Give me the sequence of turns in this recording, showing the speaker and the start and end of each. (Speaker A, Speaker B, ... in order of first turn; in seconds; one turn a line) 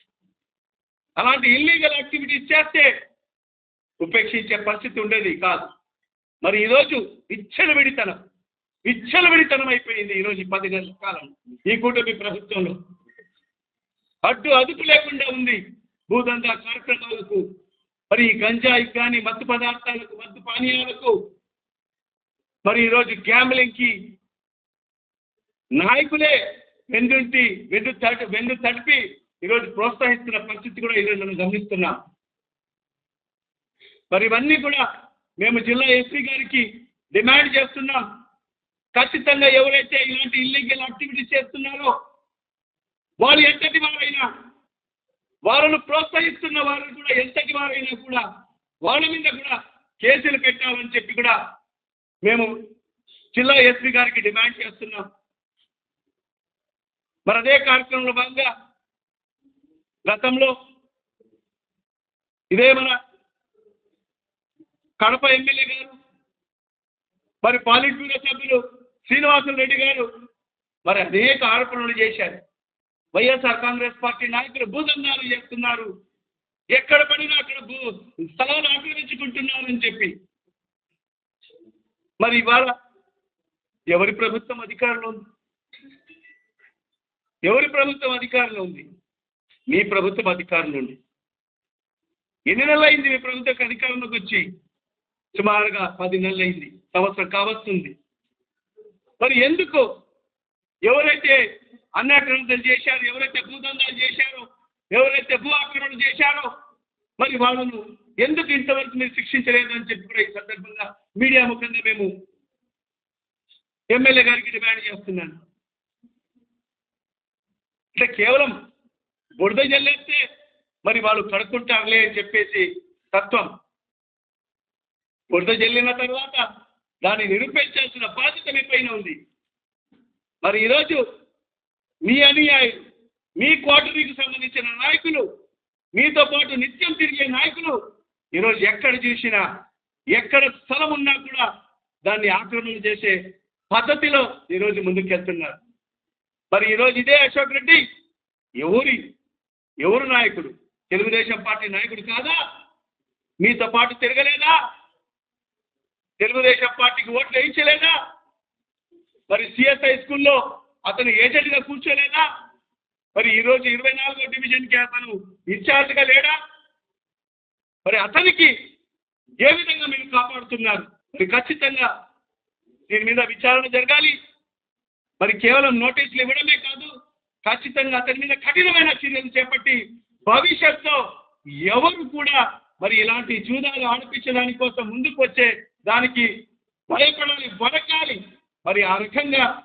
Speaker A: 1.2-2.9
Speaker A: 4.0-5.7
Speaker A: 6.4-8.2
Speaker A: 8.8-12.8
Speaker A: 14.2-17.4
Speaker A: 18.1-21.1
Speaker A: 22.6-23.9
Speaker A: 25.8-26.3
Speaker A: 26.9-31.9
Speaker A: 34.1-34.8
Speaker A: 35.4-38.0
Speaker A: 38.9-41.9
Speaker A: 43.2-44.2
Speaker A: 45.5-48.2
Speaker A: 48.8-51.4
Speaker A: 52.2-52.5
Speaker A: 53.3-55.0
Speaker A: 57.2-58.5
Speaker A: 60.0-60.5
Speaker A: 62.5-62.9
Speaker A: 65.0-65.9
Speaker A: 67.4-70.1
Speaker A: 70.8-72.4
Speaker A: 73.1-75.9
Speaker A: 76.7-80.1
Speaker A: 82.2-82.7
Speaker A: 83.9-85.2
Speaker A: 87.4-88.8
Speaker A: 89.7-91.0
Speaker A: 92.5-94.4
Speaker A: 95.3-97.9
Speaker A: 99.2-99.8
Speaker A: 100.8-101.4
Speaker A: 102.0-106.5
Speaker A: 107.2-112.1
Speaker A: 113.9-115.3
Speaker A: 118.0-118.5
Speaker A: 119.4-120.2
Speaker A: 120.8-123.5
Speaker A: 125.3-126.4
Speaker A: 127.0-129.2
Speaker A: 130.4-131.0
Speaker A: 132.1-132.8
Speaker A: 133.4-135.2
Speaker A: 135.9-137.8
Speaker A: 138.3-139.4
Speaker A: 140.1-141.4
Speaker A: 142.0-143.2
Speaker A: 143.7-145.6
Speaker A: 146.5-147.8
Speaker A: 148.6-149.0
Speaker A: 149.8-152.4
Speaker A: 153.4-154.5
Speaker A: 156.2-157.9
Speaker A: 159.3-162.2
Speaker A: 163.1-166.3
Speaker A: 167.8-168.5
Speaker A: 169.4-171.9
Speaker A: 172.9-174.1
Speaker A: 175.2-176.9
Speaker A: 177.4-181.0
Speaker A: 181.6-186.3
Speaker A: 186.9-189.4